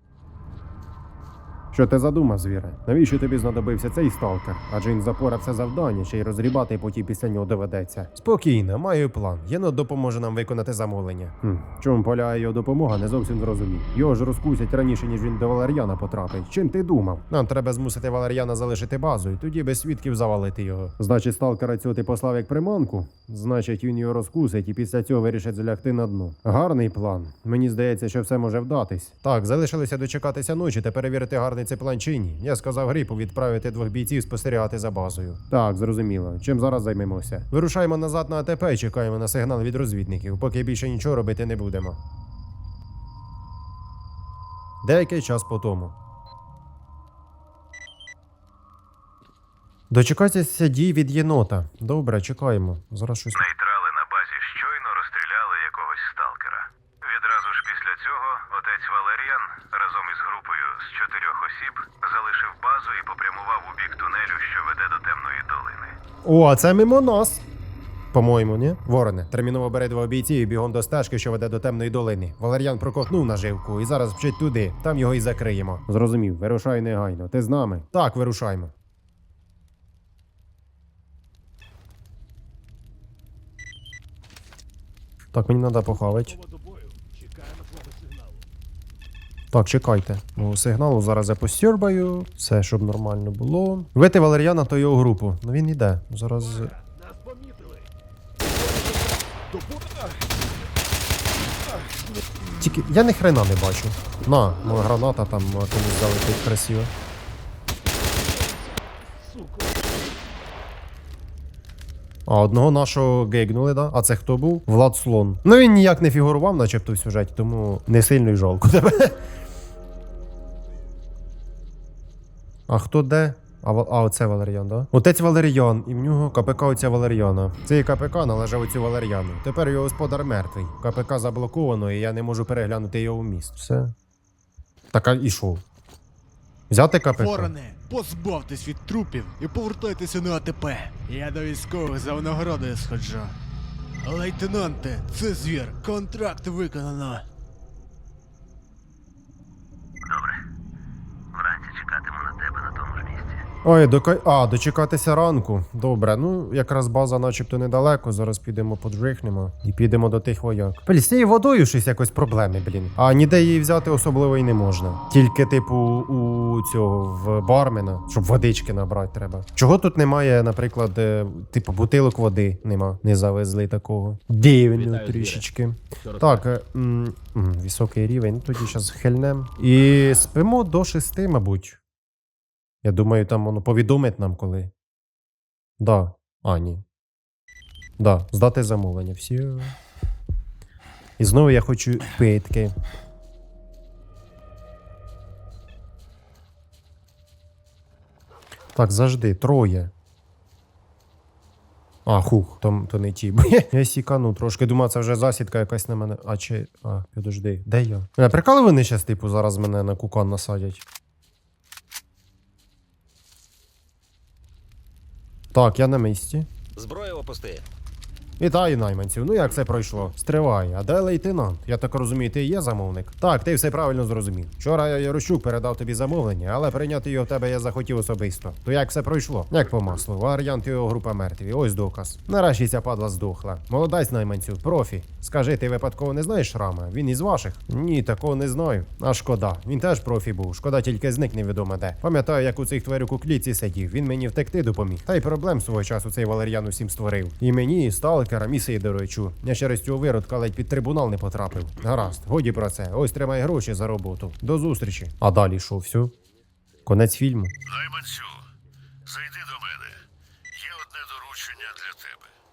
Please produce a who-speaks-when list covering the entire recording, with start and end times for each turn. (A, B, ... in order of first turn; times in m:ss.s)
0:01.7-0:42.0 A
0:44.8-0:46.0 A
0:49.9-0:53.4 A
0:53.3-1:06.0 B
1:06.2-1:07.4 A
1:08.1-1:18.7 A
1:25.3-1:26.4 A
1:29.5-1:36.7 A
1:42.6-1:46.9 A
1:52.3-1:59.2 A
2:02.7-2:13.9 A
2:14.9-2:15.6 A
2:16.7-2:17.5 A
2:17.1-2:23.4 C
2:24.0-2:27.2 C
2:30.1-2:30.4 B
2:31.3-2:33.4 B
2:33.6-3:01.8 A
2:54.7-2:55.4 D
2:56.0-2:56.4 D
3:02.8-3:04.7 A
3:05.8-3:06.8 A
3:08.0-3:09.8 A
3:11.2-3:12.8 A
3:18.8-3:19.9 A
3:22.1-3:30.8 A
3:35.5-3:36.5 A
3:36.8-3:37.6 D
3:38.4-4:16.2 A
4:16.9-4:17.5 A
4:17.7-4:18.4 B
4:19.0-4:20.0 B
4:20.5-4:22.3 B